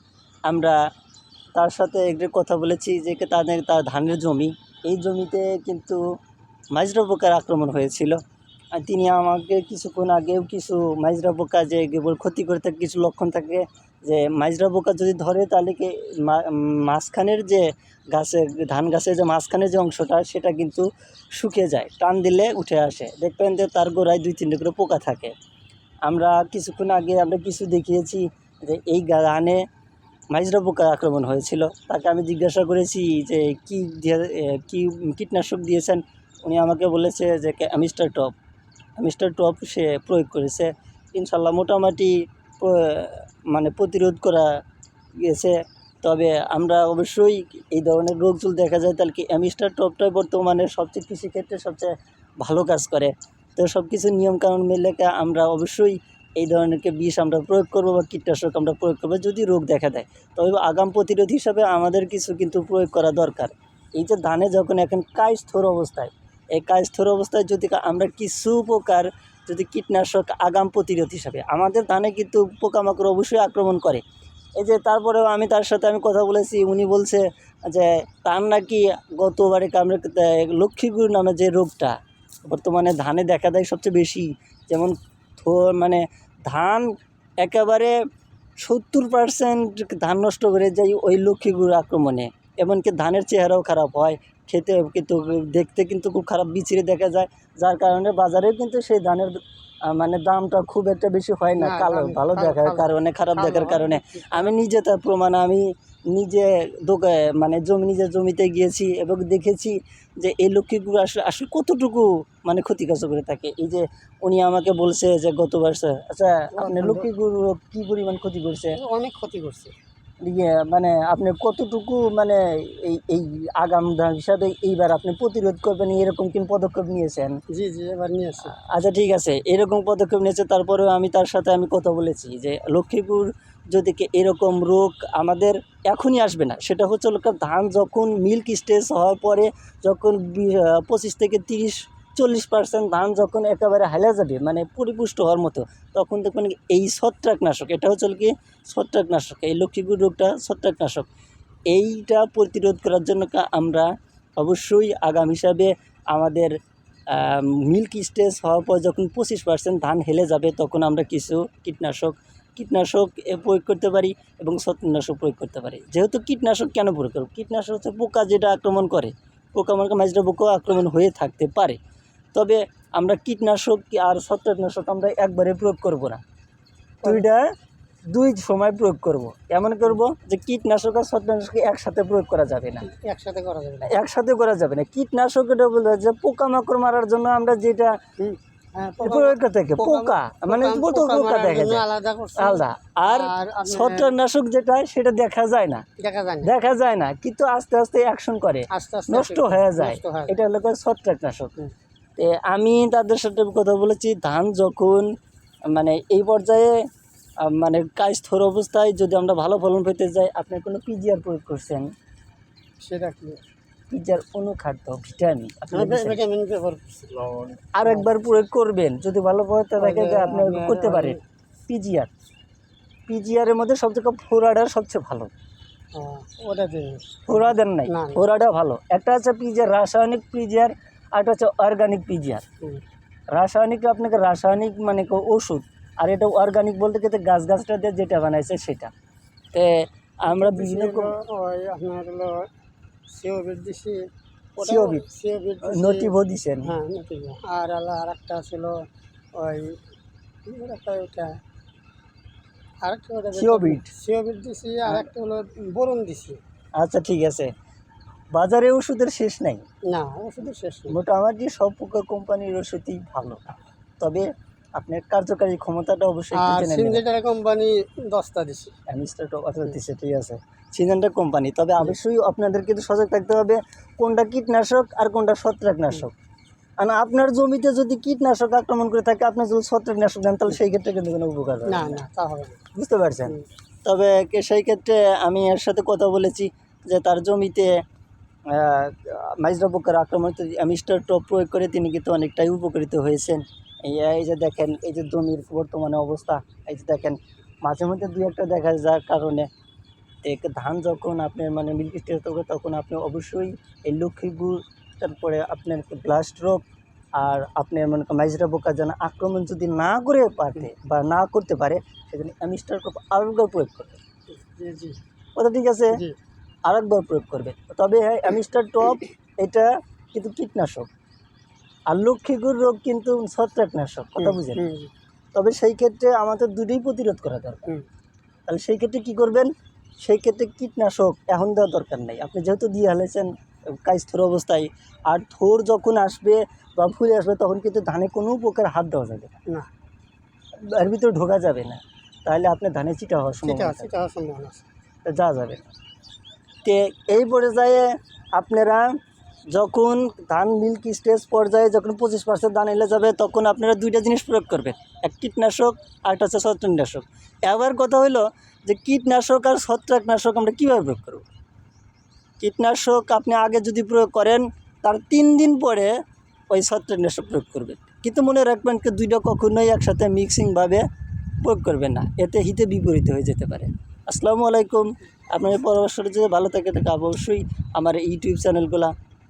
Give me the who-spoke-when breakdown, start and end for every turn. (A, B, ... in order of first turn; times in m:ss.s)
0:00.5-0:00.8 A
0:01.6-0:06.0 A
0:06.8-0:08.2 A
0:08.8-0:25.3 A
0:26.1-0:29.6 A
0:30.3-0:38.3 A
0:39.0-0:44.5 A
0:45.2-1:14.0 A
1:14.6-1:22.0 A
1:22.5-1:26.9 A
1:27.4-1:28.0 A
1:28.6-1:58.8 A
1:41.6-1:44.5 B
1:56.5-1:57.1 B
1:58.7-1:59.8 B
2:00.2-2:07.4 A
2:07.5-2:08.5 B
2:08.6-2:31.1 A
2:31.7-2:36.5 A
2:37.1-2:51.8 A
2:52.4-2:56.2 A
2:57.0-2:57.4 A
2:58.1-3:02.9 A
3:02.8-3:04.0 B
3:03.8-3:08.0 A
3:08.2-3:14.2 B
3:09.0-3:11.8 A
3:12.4-3:15.8 A
3:16.0-3:16.5 B
3:16.4-3:21.5 A
3:18.7-3:20.4 B
3:22.2-3:25.1 A
3:25.7-3:26.8 A
3:27.4-3:31.9 A
3:32.8-3:33.4 B
3:33.9-3:36.2 A
3:35.7-3:38.1 B
3:37.8-3:42.1 A
3:39.8-3:41.2 B
3:43.1-3:45.3 A
3:45.9-3:48.2 B
3:47.3-3:52.5 A
3:53.4-3:58.9 A
3:59.5-4:01.2 A
4:00.3-4:02.5 B
4:03.1-4:04.1 B
4:04.6-4:05.0 A
4:04.6-4:09.8 B
4:05.6-4:06.7 A
4:10.4-4:11.4 B
4:12.8-4:16.4 B
4:13.4-4:13.9 A
4:16.8-4:17.5 A
4:18.3-4:19.6 A
4:19.9-4:21.0 B
4:20.9-4:27.0 A
4:26.3-4:28.7 B
4:28.9-4:36.1 A
4:36.8-4:42.0 A
4:41.7-4:42.6 B
4:42.7-4:47.7 A
4:48.5-4:59.5 A
5:00.2-5:06.6 A
5:07.2-5:14.0 A
5:14.3-5:15.0 B
5:15.4-5:16.0 A
5:15.9-5:16.2 B
5:16.7-5:20.9 A
5:21.9-5:24.7 A
5:24.2-5:24.9 B
5:25.4-5:27.7 A
5:28.5-5:33.3 A
5:33.8-5:39.4 A
5:40.7-5:43.9 A
5:43.4-5:44.7 B
5:45.1-5:45.6 A
5:46.6-5:49.0 A
5:49.5-6:01.3 A
6:02.4-6:05.9 A
6:06.5-6:10.8 A
6:11.4-6:18.9 A